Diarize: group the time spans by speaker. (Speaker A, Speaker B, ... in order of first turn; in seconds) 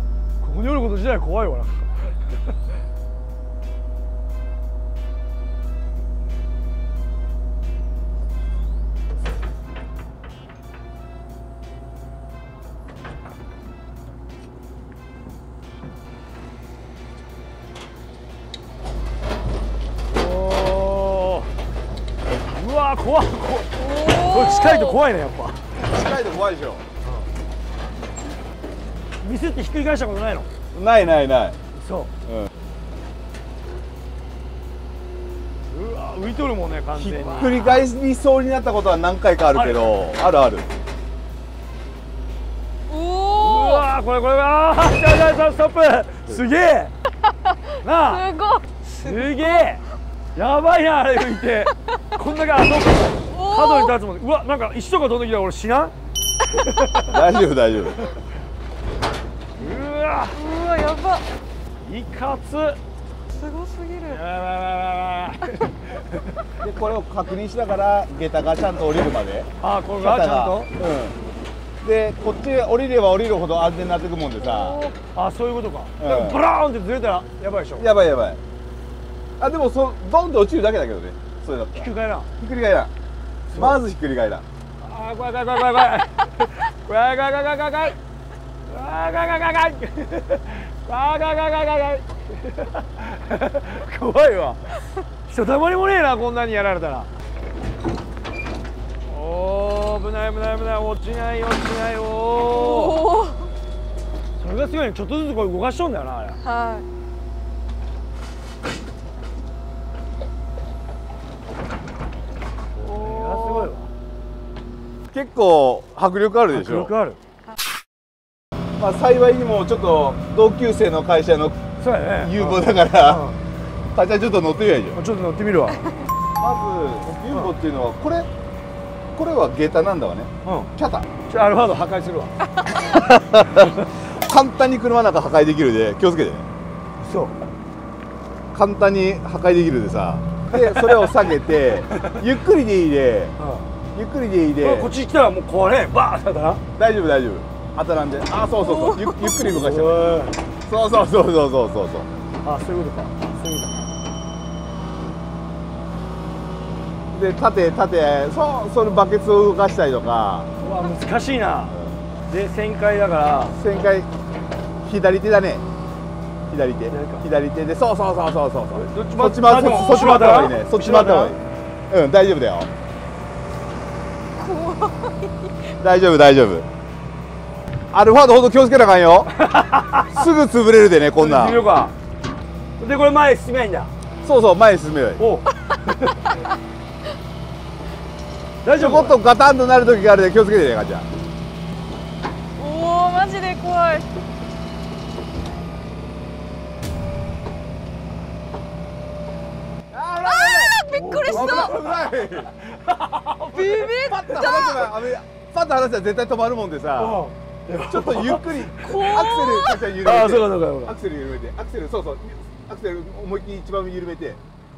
Speaker A: 0.4-2.4, 20.0-21.5, 22.5-25.6, 27.0-27.3, 29.2-30.5, 31.7-32.1, 35.7-37.9, 39.5-39.9, 43.3-46.9, 47.8-48.3, 48.8-49.8, 50.3-55.9, 56.5-57.2, 59.6-60.4, 61.8-62.8, 64.1-66.2, 69.6-70.7, 74.7-77.9, 81.7-82.3, 83.5-83.8, 84.8-88.0, 88.6-94.7, 95.3-97.1, 99.0-103.0, 104.4-106.4, 112.8-113.9, 116.5-117.2, 121.8-123.4, 124.9-125.8, 127.3-127.5, 130.4-130.7, 131.3-132.3, 137.0-137.4, 140.5-140.9, 141.9-142.2, 143.4-143.7, 144.6-146.6, 149.4-150.4, 152.4-153.9, 160.6-163.6, 166.9-167.3, 168.7-171.4, 179.3-180.2, 181.2-181.9, 182.8-183.9, 185.2-186.3, 188.6-189.2, 200.9-201.9, 202.4-203.7, 207.0-209.2, 209.9-211.0
Speaker B: 23.7-25.0, 42.9-43.9, 47.3-49.7, 53.3-54.0, 60.3-61.2, 63.3-64.2, 102.4-103.5, 106.4-106.8, 148.6-149.4, 169.6-170.5, 174.3-175.5, 192.6-194.1, 200.2-201.8, 203.5-204.9, 208.8-209.8
Speaker C: 25.7-26.9, 30.7-31.6, 36.9-40.7, 57.1-58.0, 66.6-71.2, 71.8-74.8, 76.0-76.4, 77.7-78.4, 79.4-82.9, 83.5-84.4, 112.8-113.7, 115.1-116.9, 118.8-123.3, 123.9-125.0, 126.4-128.3, 129.1-131.1, 132.8-136.5, 138.5-143.3, 143.9-144.9, 146.7-150.1, 150.6-152.1, 157.1-160.5, 161.7-162.0, 163.5-164.1, 164.8-165.6, 166.5-172.7, 175.8-176.7, 177.9-179.3, 179.9-181.6, 184.2-185.2, 188.7-191.1, 199.9-202.5, 203.5-214.4